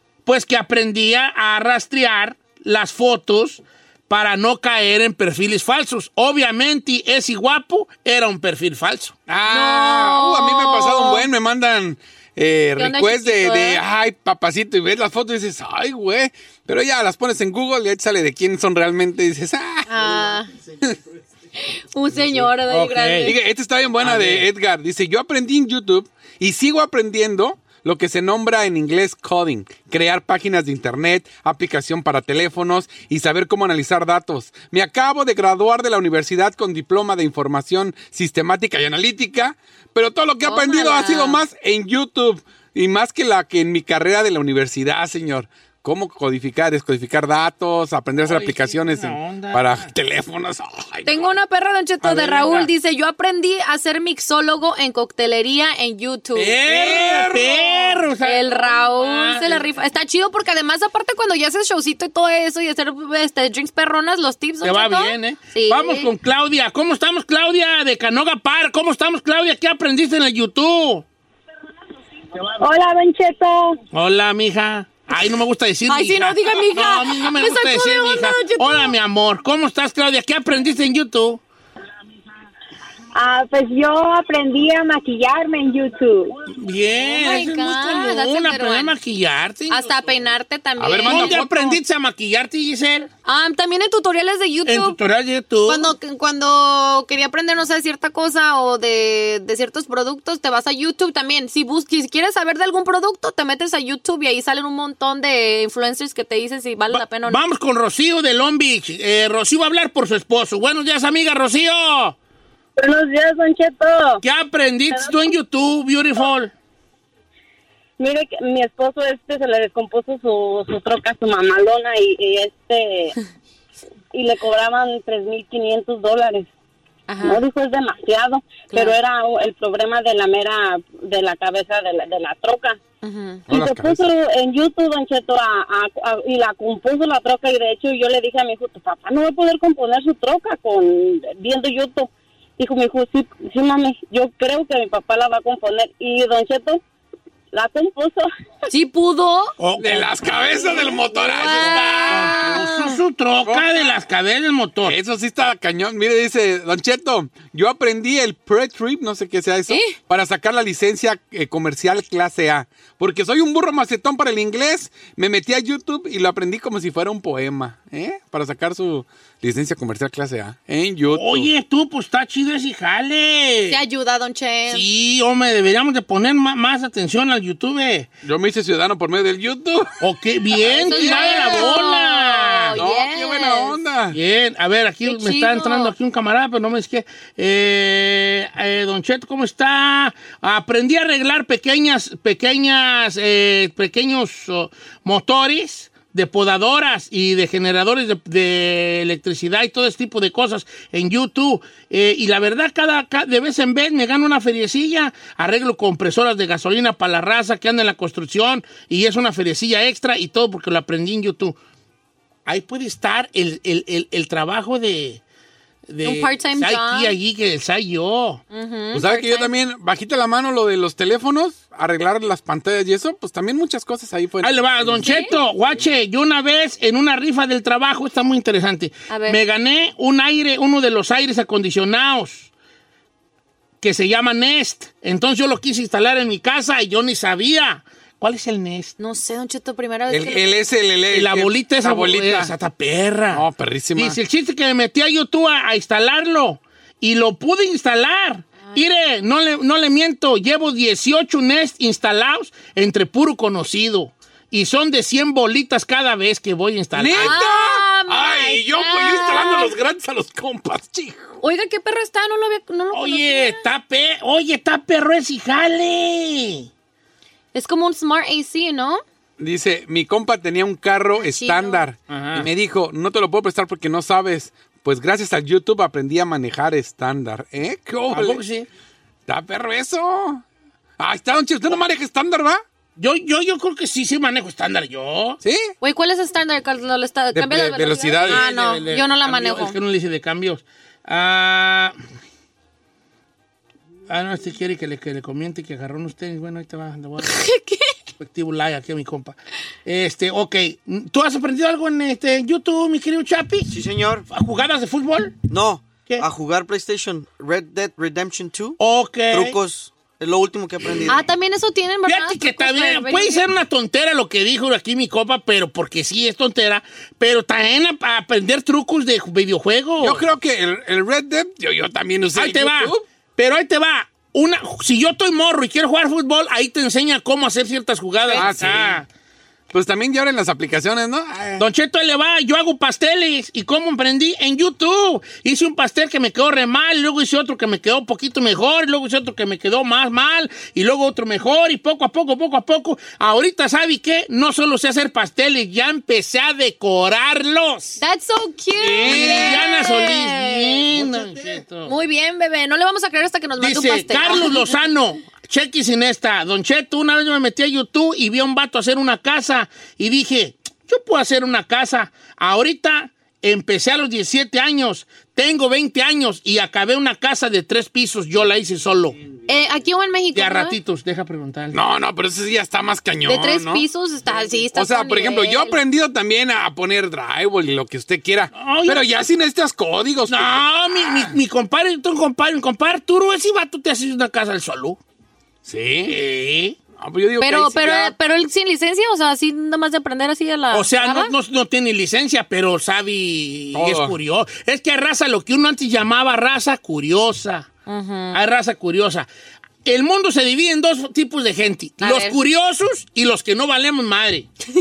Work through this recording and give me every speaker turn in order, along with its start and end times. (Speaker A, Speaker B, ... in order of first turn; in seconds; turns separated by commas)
Speaker A: 0.2-9.1, Speaker B: 9.3-19.9, Speaker C: 9.5-11.2, Speaker C: 12.8-13.8, Speaker C: 19.9-20.5, Speaker C: 21.6-23.3, Speaker A: 22.7-23.3, Speaker B: 23.2-51.3, Speaker A: 24.0-24.5, Speaker C: 40.4-41.4, Speaker A: 48.2-49.9, Speaker C: 51.0-56.6, Speaker A: 52.0-52.7, Speaker A: 56.3-59.7, Speaker B: 56.6-58.0, Speaker C: 58.2-66.1, Speaker A: 64.6-71.0, Speaker D: 72.5-73.7, Speaker A: 73.9-81.4, Speaker C: 75.9-78.9, Speaker D: 83.1-86.3, Speaker A: 86.5-89.9, Speaker C: 87.0-88.9, Speaker C: 89.7-91.4, Speaker B: 90.8-91.8, Speaker A: 91.0-93.1, Speaker C: 93.2-95.0, Speaker A: 94.7-95.9, Speaker C: 95.7-107.4, Speaker A: 106.9-112.2, Speaker D: 112.8-114.2, Speaker A: 114.2-116.5, Speaker D: 114.9-115.3, Speaker D: 118.0-123.1, Speaker D: 124.1-126.5, Speaker C: 127.1-127.4, Speaker D: 127.2-132.8, Speaker C: 128.7-129.0, Speaker C: 133.0-133.4, Speaker B: 133.5-134.0, Speaker D: 133.5-146.8, Speaker D: 147.5-148.3, Speaker C: 148.7-149.5, Speaker A: 149.6-154.9, Speaker B: 149.8-152.6, Speaker C: 151.2-152.9, Speaker B: 154.8-171.5, Speaker C: 159.7-159.9, Speaker A: 171.1-173.8, Speaker C: 173.7-174.8, Speaker A: 174.7-178.1, Speaker B: 178.2-180.0, Speaker A: 180.0-182.8, Speaker B: 180.6-181.7, Speaker C: 180.7-183.7, Speaker B: 182.8-184.2, Speaker A: 184.1-211.6, Speaker C: 185.0-185.9, Speaker A: 212.4-215.2, Speaker A: 215.9-218.4, Speaker C: 216.0-217.1, Speaker C: 218.5-219.5, Speaker B: 218.9-225.8, Speaker A: 224.4-232.5, Speaker C: 225.0-225.3, Speaker C: 229.1-229.4, Speaker A: 233.8-238.9, Speaker C: 239.0-240.5, Speaker B: 240.1-242.5, Speaker A: 241.1-243.4, Speaker B: 243.3-244.2, Speaker A: 243.9-257.4, Speaker B: 256.9-261.4, Speaker C: 257.1-259.7, Speaker C: 261.4-263.6, Speaker A: 262.9-266.7, Speaker C: 267.5-269.0, Speaker B: 269.4-278.4, Speaker C: 271.2-271.9, Speaker A: 272.1-272.5, Speaker A: 278.1-278.7, Speaker B: 279.3-280.4, Speaker B: 281.0-282.6, Speaker A: 283.0-285.4, Speaker B: 285.4-285.7, Speaker C: 285.8-289.8, Speaker B: 287.3-288.5, Speaker A: 288.2-291.9, Speaker A: 294.1-297.3, Speaker C: 297.2-297.9, Speaker A: 298.2-303.7, Speaker E: 303.7-304.2, Speaker A: 304.3-305.4, Speaker E: 305.5-308.8, Speaker A: 308.8-309.6, Speaker E: 309.3-311.3, Speaker C: 311.1-313.4, Speaker A: 312.1-320.2, Speaker B: 320.0-323.0, Speaker A: 322.3-329.1, Speaker B: 328.3-329.0, Speaker B: 329.7-331.6, Speaker A: 331.6-348.0, Speaker C: 348.0-350.9, Speaker B: 348.8-349.7, Speaker A: 349.0-351.9, Speaker C: 351.8-354.6, Speaker A: 353.6-369.1, Speaker C: 369.5-370.8, Speaker A: 370.3-371.8, Speaker B: 371.7-373.8, Speaker C: 373.2-375.8, Speaker B: 374.7-381.3, Speaker A: 378.5-379.0, Speaker A: 380.3-385.0, Speaker B: 385.6-386.2, Speaker A: 386.1-386.8, Speaker B: 387.0-388.1, Speaker C: 387.4-391.3, Speaker A: 390.7-397.7, Speaker B: 393.7-394.1, Speaker C: 397.9-398.4, Speaker A: 398.3-399.3, Speaker A: 399.8-404.5, Speaker C: 402.0-402.4